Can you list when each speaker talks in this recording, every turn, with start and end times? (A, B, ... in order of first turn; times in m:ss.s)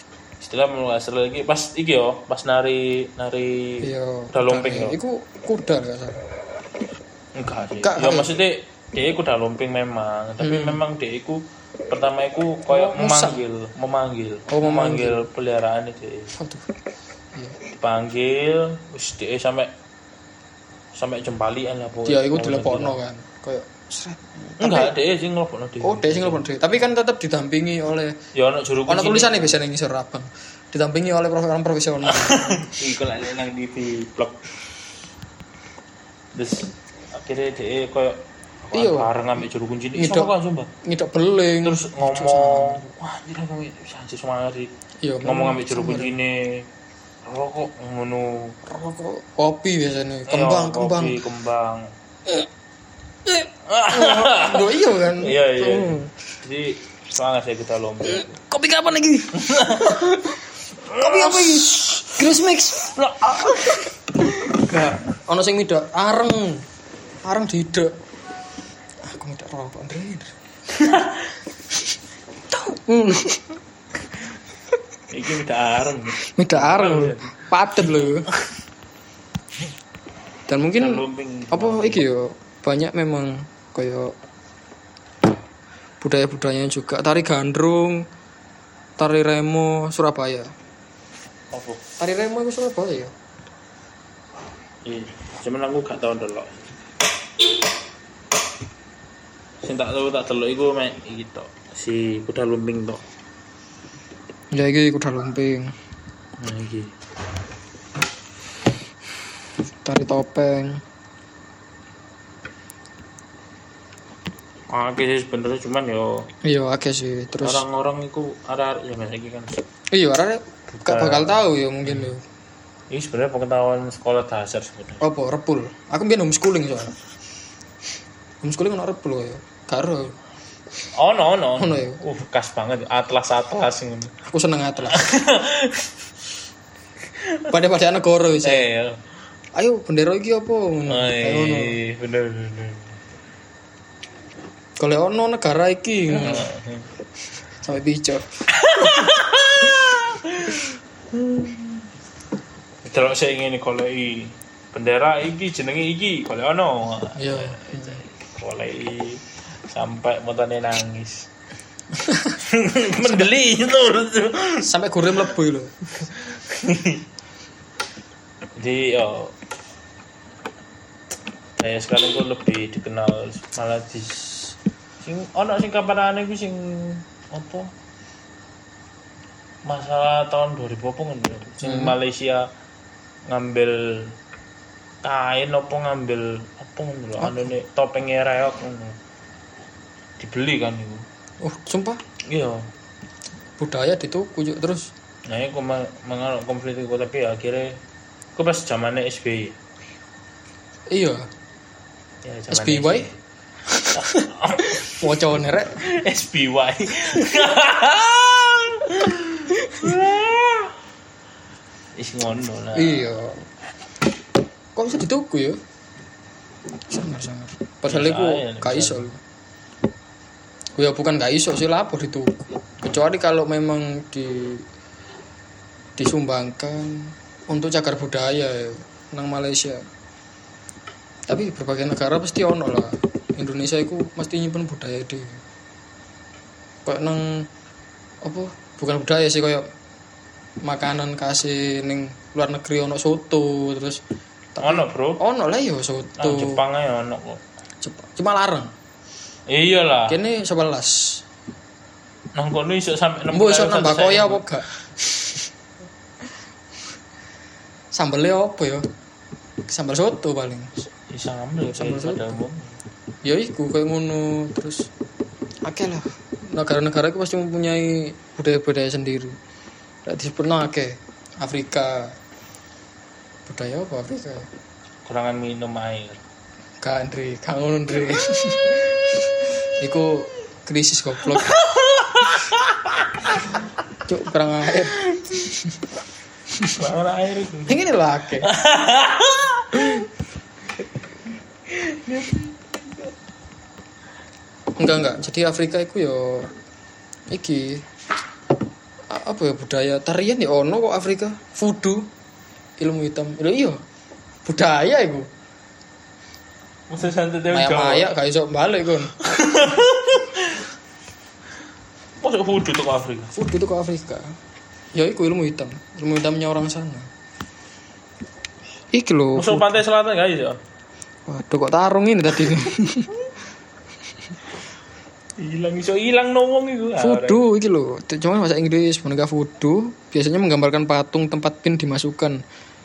0:00.4-0:05.0 A
0:03.8-0:06.2 B
0:07.3-0:16.4 A
0:07.8-0:08.4 B
0:10.4-0:10.8 B
0:12.7-0:13.4 B
0:14.5-0:15.2 B
0:16.4-0:16.7 B
0:17.7-0:19.7 A
0:20.9-0:23.0 A
0:22.0-0:24.9 B
0:24.6-0:26.4 A
0:25.8-0:28.2 B
0:28.3-0:29.6 A
0:28.9-0:32.8 B
0:32.0-0:34.4 A
0:36.3-0:40.7 A
0:38.7-0:39.4 B
0:39.9-0:40.3 B
0:40.8-0:42.9 B
0:41.6-0:44.7 A
0:45.0-0:46.2 B
0:45.2-0:46.7 A
0:47.2-0:48.6 A
0:48.6-0:51.2 B
0:50.3-0:51.9 A
0:53.2-0:56.1 B
0:53.6-0:58.4 A
0:58.1-1:00.4 B
0:59.3-1:04.7 A
1:00.9-1:03.8 B
1:04.4-1:06.6 B
1:07.2-1:07.9 B
1:09.0-1:10.3 B
1:10.7-1:11.3 A
1:12.5-1:13.6 B
1:15.1-1:18.4 A
1:16.2-1:18.3 B
1:20.5-1:24.1 B
1:20.7-1:22.0 A
1:26.0-1:28.0 B
1:29.0-1:30.5 B
1:31.5-1:31.8 A
1:32.0-1:33.1 B
1:34.8-1:36.7 A
1:39.6-1:43.0 A
1:44.5-1:45.7 B
1:46.4-1:46.9 A
1:49.8-1:50.8 B
1:54.7-1:56.3 A
1:56.4-1:57.6 B
1:57.4-1:59.6 A
1:59.9-2:02.2 B
2:00.7-2:02.1 A
2:02.9-2:05.0 A
2:05.0-2:07.0 B
2:08.4-2:10.2 B
2:11.0-2:14.1 A
2:11.6-2:12.0 B
2:14.3-2:15.1 B
2:14.9-2:15.9 A
2:17.2-2:17.5 A
2:17.5-2:18.6 B
2:18.4-2:19.0 A
2:19.5-2:21.8 B
2:20.9-2:23.0 A
2:24.8-2:26.5 B
2:26.1-2:26.9 A
2:27.6-2:28.3 B
2:28.5-2:31.8 A
2:28.8-2:29.1 B
2:32.8-2:41.3 A
2:37.1-2:38.0 B
2:42.0-2:42.3 B
2:42.4-2:44.7 A
2:44.6-2:45.8 B
2:46.0-2:47.0 A
2:48.6-2:49.3 A
2:51.6-2:57.7 A
2:59.6-3:02.5 A
3:01.6-3:01.9 B
3:03.3-3:04.1 A
3:05.0-3:09.0 A
3:07.2-3:07.5 B
3:10.2-3:11.0 A
3:11.4-3:12.0 B
3:12.2-3:12.7 A
3:13.6-3:14.9 B
3:15.3-3:17.8 A
3:18.4-3:19.6 A
3:20.9-3:21.2 B
3:22.2-3:23.1 A
3:22.5-3:23.1 B
3:23.7-3:25.7 B
3:23.9-3:25.1 A
3:25.8-3:30.7 A
3:29.6-3:30.0 B
3:32.0-3:33.1 A
3:32.7-3:33.4 B
3:34.7-3:35.6 B
3:36.9-3:39.2 B
3:37.9-3:39.1 A
3:40.8-3:44.6 B
3:46.0-3:49.8 B
3:51.3-3:55.4 B
3:56.8-3:57.5 B
3:58.2-3:59.6 B
4:00.6-4:04.0 B
4:04.5-4:06.6 B
4:04.6-4:05.2 A
4:06.2-4:07.4 A
4:07.8-4:08.7 B
4:09.5-4:10.2 A
4:10.1-4:11.2 B
4:12.3-4:14.5 A
4:13.3-4:15.5 B
4:17.9-4:18.8 B
4:19.7-4:20.7 B
4:21.1-4:22.8 A
4:21.7-4:22.4 B
4:23.2-4:24.9 B
4:25.6-4:29.4 B
4:30.0-4:32.2 B
4:33.4-4:34.5 B
4:35.0-4:36.2 A
4:36.8-4:41.6 B
4:41.3-4:43.5 A
4:44.0-4:45.7 B
4:45.0-4:45.4 A
4:46.5-4:46.8 B
4:46.7-4:47.8 A
4:47.7-4:48.5 B
4:48.4-4:50.0 A
4:51.7-4:52.6 A
4:54.8-4:56.5 B
4:57.3-4:57.8 B
4:59.1-5:02.1 B
5:02.8-5:03.8 B
5:04.4-5:05.3 B
5:06.9-5:08.1 A
5:07.5-5:09.1 B
5:09.2-5:10.6 A
5:12.2-5:13.4 A
5:13.3-5:14.3 B
5:14.9-5:17.1 B
5:18.9-5:19.8 B
5:19.3-5:20.6 A
5:21.3-5:23.1 B
5:25.4-5:27.4 A
5:27.0-5:32.4 B